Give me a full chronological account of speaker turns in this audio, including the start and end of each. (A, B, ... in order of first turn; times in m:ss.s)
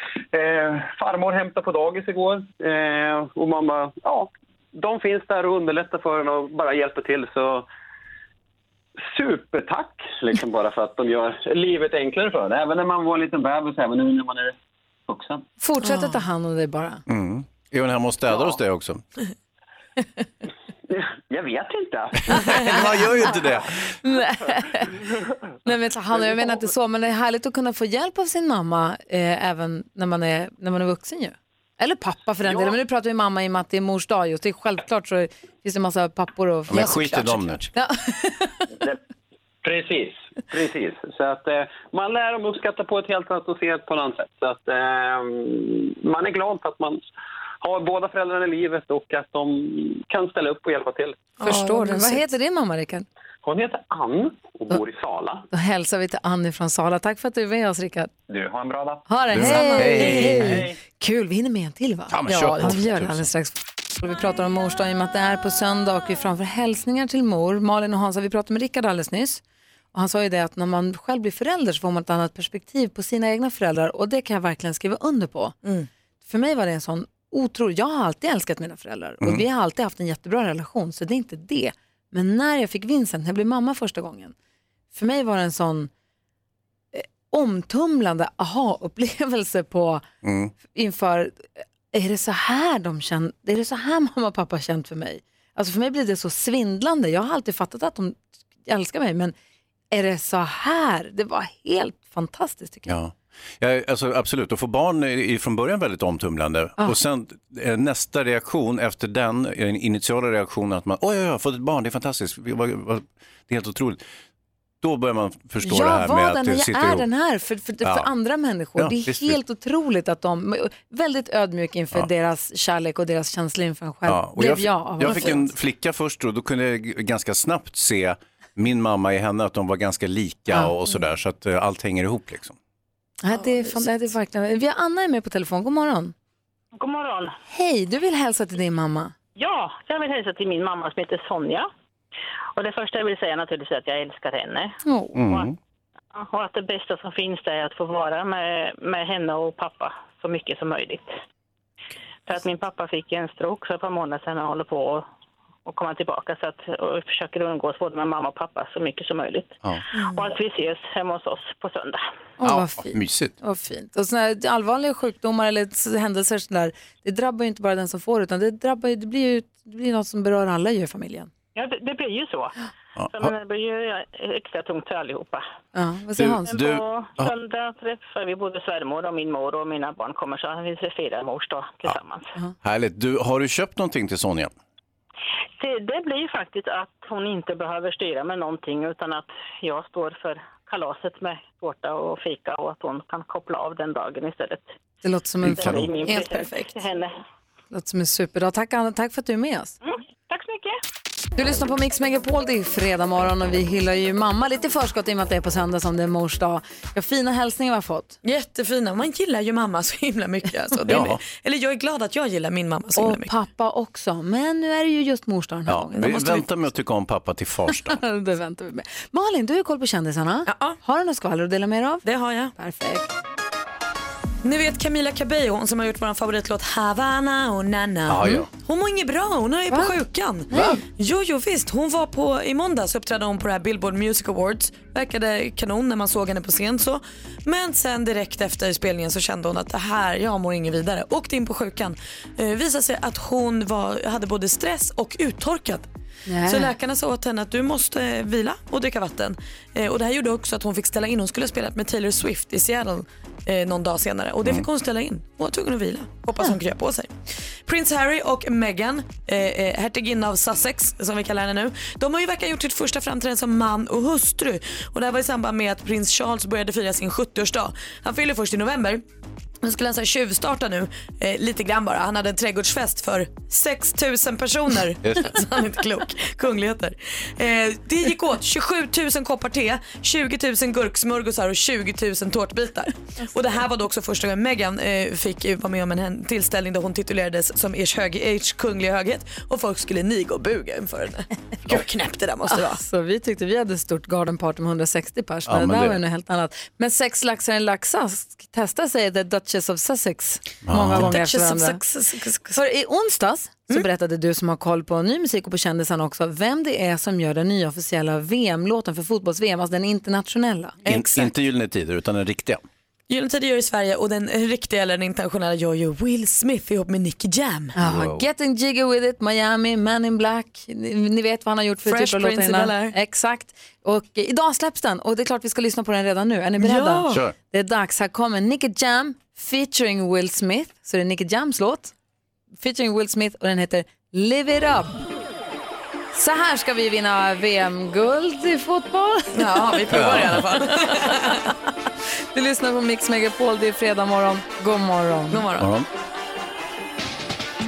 0:00.3-0:07.7 A
0:09.0-0:14.5 A
0:15.1-0:15.4 A
0:15.6-0:17.0 B
0:17.1-0:19.0 C
0:20.9-0:22.2 A
0:22.3-0:23.7 C
0:22.4-0:23.0 D
0:22.7-0:23.3 B
0:24.0-0:25.0 B
0:25.6-0:38.7 B
0:36.7-0:37.7 C
0:39.6-0:47.0 A
0:47.6-0:51.3 A
0:51.4-0:52.2 D
0:51.4-0:53.0 B
0:53.4-0:55.4 A
0:55.5-0:58.1 B
0:58.3-0:59.0 A
0:59.0-1:09.4 B
0:59.3-1:00.6 C
0:59.4-1:00.4 D
1:00.4-1:00.7 A
1:02.1-1:03.3 C
1:02.3-1:02.7 D
1:09.9-1:15.6 B
1:16.2-1:24.3 B
1:24.9-1:25.9 B
1:26.9-1:30.0 B
1:30.2-1:30.5 C
1:30.7-1:39.3 B
1:39.9-1:42.9 B
1:42.8-1:54.0 C
1:54.8-1:57.0 C
1:55.6-2:05.5 B
1:57.8-1:58.1 C
1:58.8-1:59.4 C
2:04.1-2:12.6 C
2:05.0-2:05.4 D
2:13.2-2:16.1 B
2:13.3-2:13.9 D
2:16.7-2:17.4 E
2:17.5-2:19.1 B
2:19.4-2:21.7 E
2:22.6-2:25.5 E
2:24.8-2:25.2 B
2:25.1-2:25.5 C
2:26.1-2:31.2 E
2:32.3-2:35.0 E
2:35.6-2:42.0 E
2:40.0-2:40.2 D
2:42.4-2:51.3 B
2:42.4-2:43.3 C
2:51.5-2:52.6 E
2:53.0-2:53.3 C
2:53.1-2:55.4 E
2:55.7-2:56.6 B
2:56.2-2:57.3 C
2:56.5-3:02.3 E
3:02.6-3:04.5 C
3:05.6-3:14.7 E
3:15.0-3:15.8 B
3:15.4-3:15.9 C
3:15.5-3:17.2 E
3:16.0-3:16.7 D
3:17.7-3:19.7 B
3:19.8-3:20.7 E
3:21.4-3:28.2 B
3:28.2-3:33.3 D
3:30.9-3:31.2 C
3:33.0-3:36.1 B
3:35.7-3:38.0 C
3:36.0-3:36.5 D
3:37.7-3:43.1 B
3:40.5-3:40.8 D
3:42.0-3:42.5 D
3:44.4-4:05.9 D
3:48.1-3:48.5 C
3:50.5-3:50.8 B
4:06.3-4:06.7 B
4:06.5-4:17.1 D
4:17.6-4:29.0 D
4:29.6-4:52.8 D
4:35.0-4:35.4 C
4:52.5-5:01.8 B
4:55.5-4:56.0 C
5:00.6-5:01.1 C
5:00.9-5:02.6 D
5:02.6-5:11.2 B
5:10.8-5:11.2 D
5:10.8-5:12.6 C
5:13.1-5:17.7 D
5:17.7-5:31.9 B
5:17.8-5:18.2 C
5:21.8-5:22.9 D
5:26.6-5:27.2 D
5:32.6-5:35.0 B
5:36.1-5:40.1 B
5:39.3-5:41.5 D
5:39.9-5:40.4 C
5:40.8-5:41.4 B
5:42.3-5:45.4 B
5:45.3-5:45.7 D
5:45.6-5:45.9 C